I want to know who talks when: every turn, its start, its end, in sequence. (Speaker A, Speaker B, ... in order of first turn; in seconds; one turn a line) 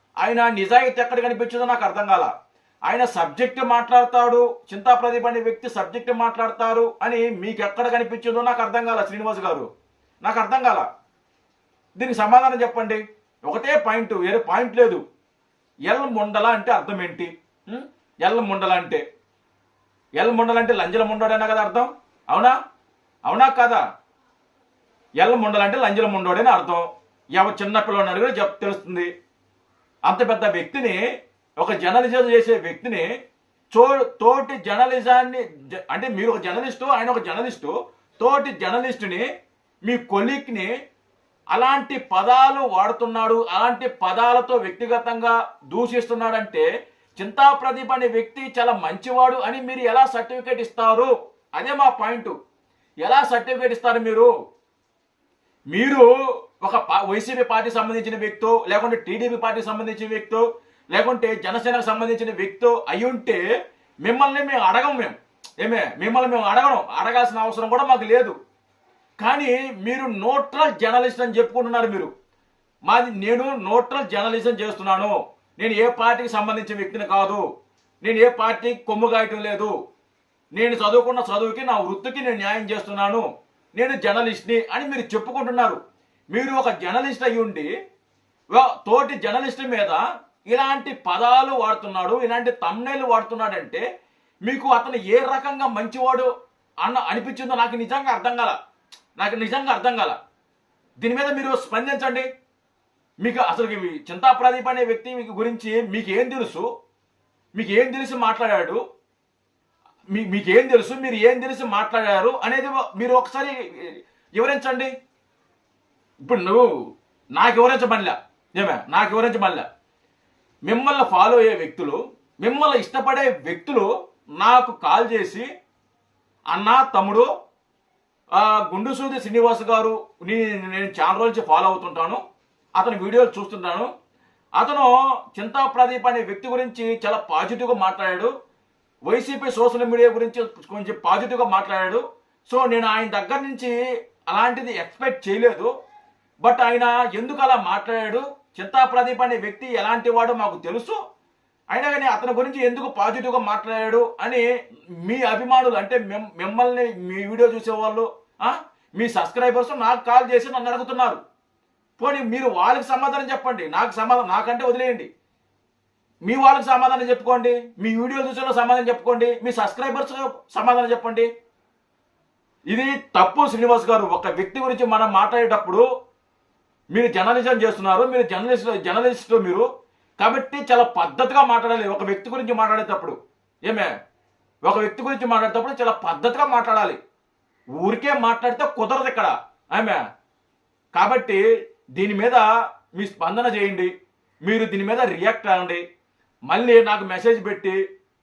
Speaker A: 0.2-2.3
Speaker A: 2.9-9.7
Speaker A: 10.2-10.9
Speaker A: 12.0-15.0
Speaker A: 15.9-19.0
Speaker A: 20.2-22.6
Speaker A: 23.3-23.8
Speaker A: 25.2-29.1
Speaker A: 30.1-31.0
Speaker A: 31.6-33.1
Speaker A: 33.7-39.2
Speaker A: 39.9-40.7
Speaker A: 41.5-46.7
Speaker A: 47.2-52.4
Speaker A: 53.0-54.3
Speaker A: 55.7-56.0
Speaker A: 56.6-63.4
Speaker A: 64.0-68.4
Speaker A: 69.2-72.1
Speaker A: 72.9-77.4
Speaker A: 78.0-79.7
Speaker A: 80.6-83.2
Speaker A: 83.8-85.8
Speaker A: 86.3-87.7
Speaker A: 88.5-90.0
Speaker A: 90.5-93.8
Speaker A: 94.5-96.3
Speaker A: 96.8-98.5
Speaker A: 99.2-100.2
Speaker A: 101.0-102.3
Speaker A: 103.2-106.7
Speaker A: 107.6-108.8
Speaker A: 110.1-114.9
Speaker A: 116.2-116.6
Speaker A: 117.4-119.7
Speaker A: 120.7-125.5
Speaker A: 126.5-127.3
Speaker A: 128.4-132.2
Speaker A: 132.8-133.9
Speaker A: 134.6-138.3
Speaker A: 139.1-143.7
Speaker A: 144.3-145.7
Speaker A: 146.4-151.0
Speaker A: 151.7-154.4
Speaker A: 155.1-161.2
Speaker A: 162.0-165.1
Speaker A: 166.3-171.3
Speaker A: 172.7-175.8
Speaker A: 176.9-179.7
Speaker A: 180.2-183.9
Speaker A: 184.7-187.0
Speaker A: 187.8-190.0
Speaker A: 191.0-191.4
Speaker A: 192.0-192.4
Speaker A: 193.0-193.9
Speaker A: 194.5-195.8
Speaker A: 196.5-197.8